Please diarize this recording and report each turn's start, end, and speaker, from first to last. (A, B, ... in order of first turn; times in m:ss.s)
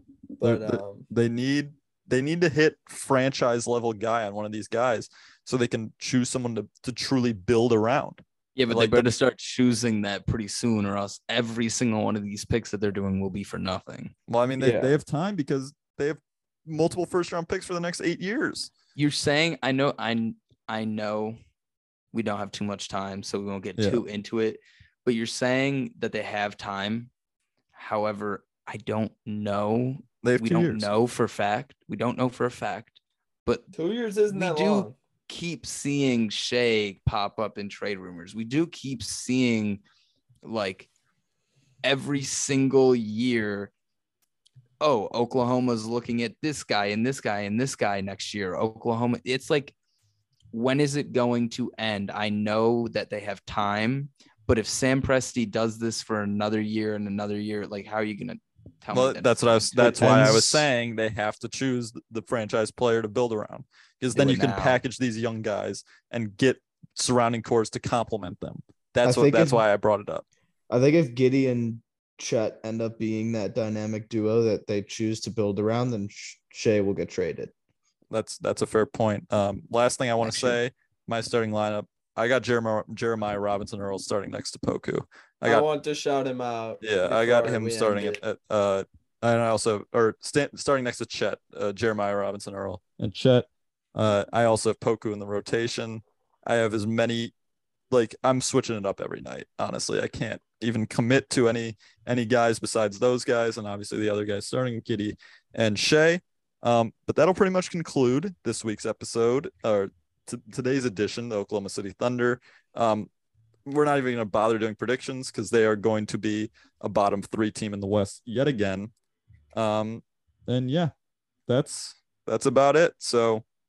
0:00.4-0:01.1 A
0:00.4-0:09.1 B
0:08.6-0:14.1 C
0:14.3-0:18.7 B
0:14.6-0:14.9 D
0:19.0-0:21.4 C
0:22.1-0:27.1 C
0:23.8-0:24.0 B
0:27.7-0:33.7 C
0:30.2-0:30.9 B
0:33.7-0:34.9 A
0:34.3-0:39.8 C
0:40.4-0:40.9 C
0:41.8-0:43.7 C
0:44.8-0:49.7 C
0:50.5-0:59.5 C
0:58.9-1:10.2 B
0:59.8-1:00.7 D
1:04.1-1:04.8 C
1:09.0-1:09.6 D
1:10.7-1:17.5 D
1:18.1-1:25.7 B
1:20.2-1:20.6 D
1:25.4-1:28.2 A
1:26.8-1:37.3 B
1:37.9-1:53.1 B
1:53.6-1:58.9 B
1:59.5-2:00.9 B
2:01.5-2:03.4 B